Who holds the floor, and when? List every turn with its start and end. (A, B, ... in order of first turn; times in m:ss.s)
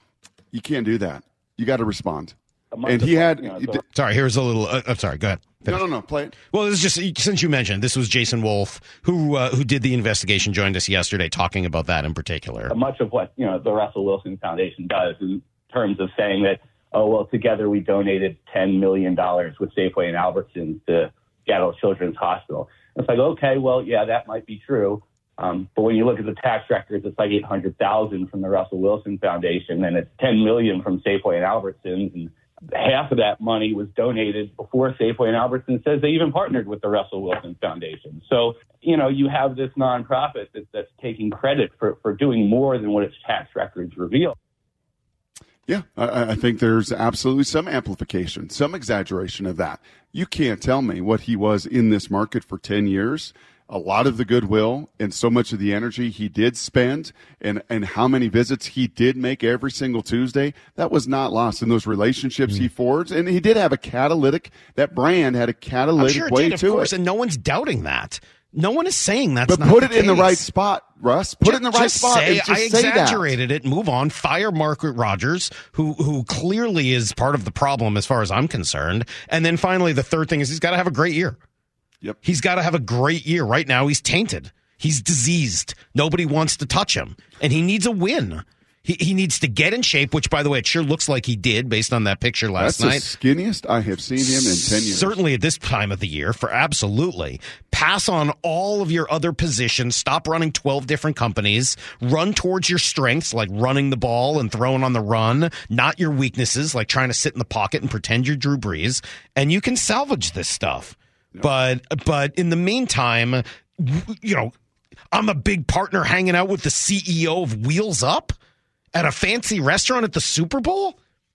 0:00.5-0:03.8 A
0:02.7-0:03.8 B
0:03.9-0:05.8 C
0:05.6-0:06.3 A
0:06.5-0:12.7 C
0:12.7-0:44.3 B
0:45.7-1:06.9 A
1:06.0-1:10.4 C
1:09.5-1:13.3 A
1:11.4-1:21.4 C
1:22.2-1:33.1 C
1:32.6-1:35.2 A
1:34.2-1:54.5 C
1:55.1-1:58.3 C
1:58.9-2:01.0 C